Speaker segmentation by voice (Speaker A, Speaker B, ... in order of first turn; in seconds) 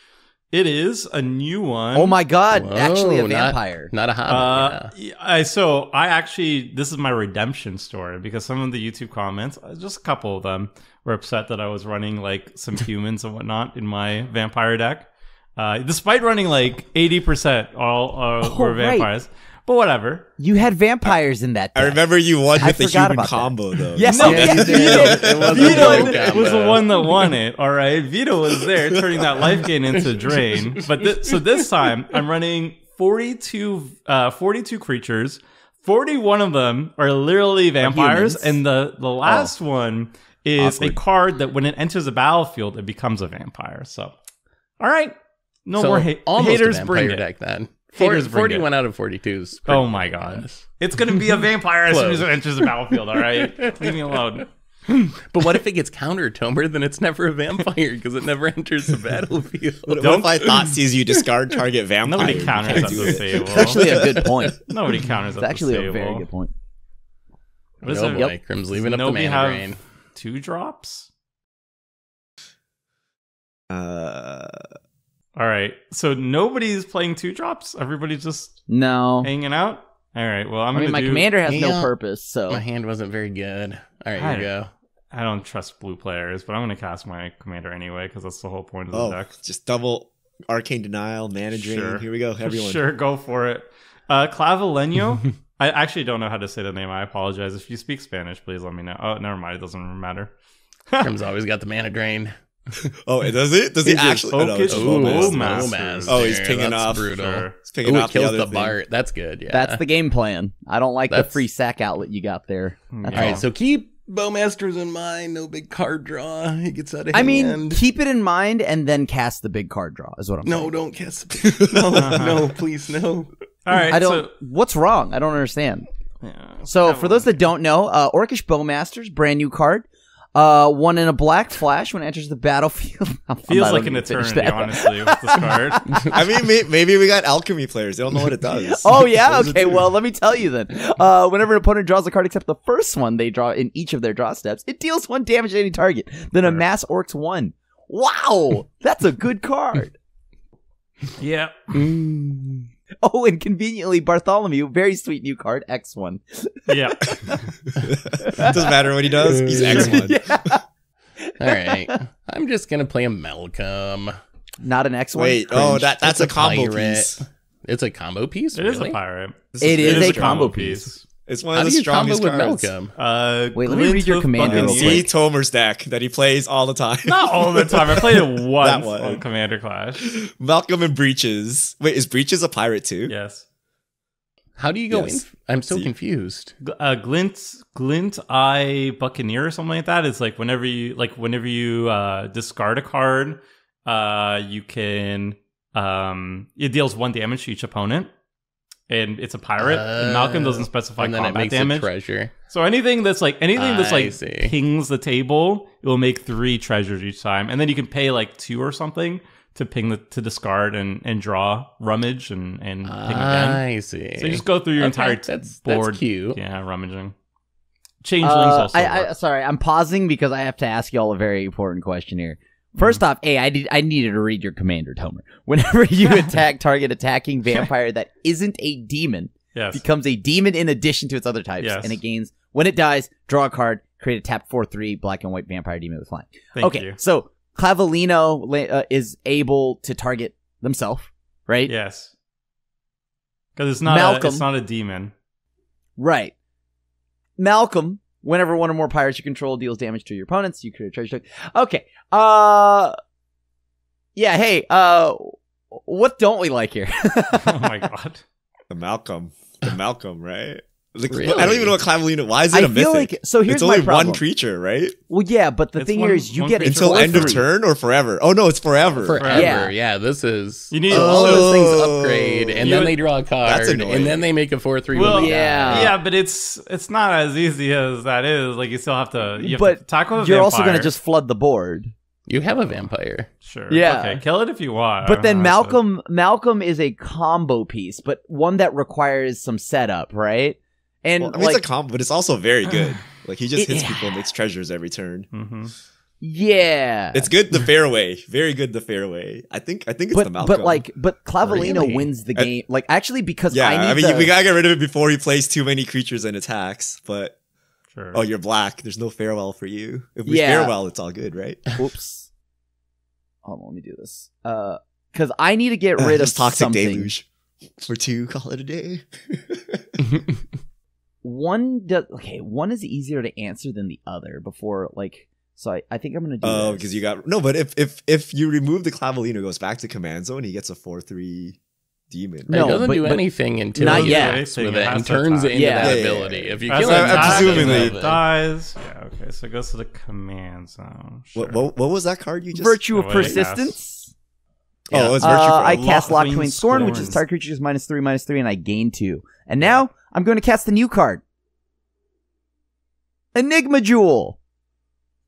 Speaker A: 0.5-2.2, 4.3-20.3, 24.1-44.1, 44.8-45.1, 45.6-47.2, 47.9-48.7, 49.6-54.5, 60.0-60.4, 62.0-64.0, 64.7-66.3, 67.8-71.1, 75.3-78.6, 79.2-81.3, 84.2-84.5, 85.1-89.3, 91.5-100.3, 104.3-106.4, 107.0-107.5, 112.9-113.4, 121.9-122.5, 123.6-124.3, 126.2-127.4, 133.5-135.9, 151.2-151.8, 156.7-157.5, 168.5-171.0, 172.9-175.1, 177.1-180.1, 183.1-183.4, 186.6-198.1, 198.9-201.9, 202.5-213.6, 214.2-217.1, 218.0-219.1, 222.8-223.0, 229.5-229.8, 231.6-232.0, 236.6-237.0, 241.7-242.1, 243.6-245.1, 257.3-258.2, 265.8-267.4, 269.2-269.6, 270.7-271.5, 274.9-280.9, 283.4-285.8, 295.3-295.7, 307.9-308.2, 333.8-335.8, 336.7-341.6, 342.9-343.8, 345.5-347.2
Speaker B: 1.9-3.9, 18.4-19.1, 20.4-22.0, 22.6-26.2, 37.8-38.6, 39.2-39.5, 40.6-41.0, 63.5-64.6, 65.4-66.5, 78.7-79.3, 80.7-82.6, 109.5-113.4, 117.1-120.7, 123.7-125.9, 126.7-136.2, 138.7-149.9, 153.0-156.7, 158.2-158.6, 159.4-160.6, 161.2-162.0, 164.6-166.0, 169.6-170.9, 173.5-175.1, 218.2-241.7, 243.8-244.4, 246.0-246.3, 247.4-252.9, 254.2-257.7, 262.5-264.2, 265.1-267.4, 269.3-269.7, 274.9-275.9, 279.4-281.9, 283.7-284.2, 285.0-291.6, 293.6-294.3, 296.2-297.3, 300.1-304.3, 310.2-310.7, 311.8-312.3, 313.4-317.1, 321.2-327.0, 332.5-334.4, 335.5-336.0, 342.5-344.1, 345.2-351.2, 353.3-354.4
Speaker C: 2.5-4.9, 24.1-27.3, 29.9-31.9, 45.8-51.2, 51.9-61.2, 62.2-63.3, 63.8-64.5, 67.8-69.8, 81.5-81.9, 82.5-84.7, 101.0-102.3, 104.7-109.8, 111.1-111.4, 113.1-117.8, 120.4-123.3, 151.7-152.6, 159.2-160.1, 161.4-164.1, 166.0-169.0, 171.5-172.9, 184.6-186.5, 199.6-202.3, 203.6-204.6, 212.8-216.4, 261.1-261.8, 269.0-275.9, 282.3-283.3, 301.4-302.1, 332.5-338.2, 344.9-345.2
Speaker D: 21.7-26.7, 28.9-29.3, 59.8-64.0, 73.7-74.6, 88.9-92.8, 103.0-108.8, 121.4-122.3, 136.1-139.8, 157.8-160.3, 165.1-167.2, 169.5-170.5, 171.3-172.7, 174.3-179.2, 180.0-183.1, 184.9-185.9, 258.7-264.9, 266.6-269.3, 270.9-274.2, 291.2-295.3, 297.1-300.9, 303.5-307.3, 308.1-311.6, 316.0-317.2, 317.8-320.0, 326.4-331.6, 332.1-332.8, 335.8-337.9, 341.3-343.4, 344.9-346.1, 346.7-347.2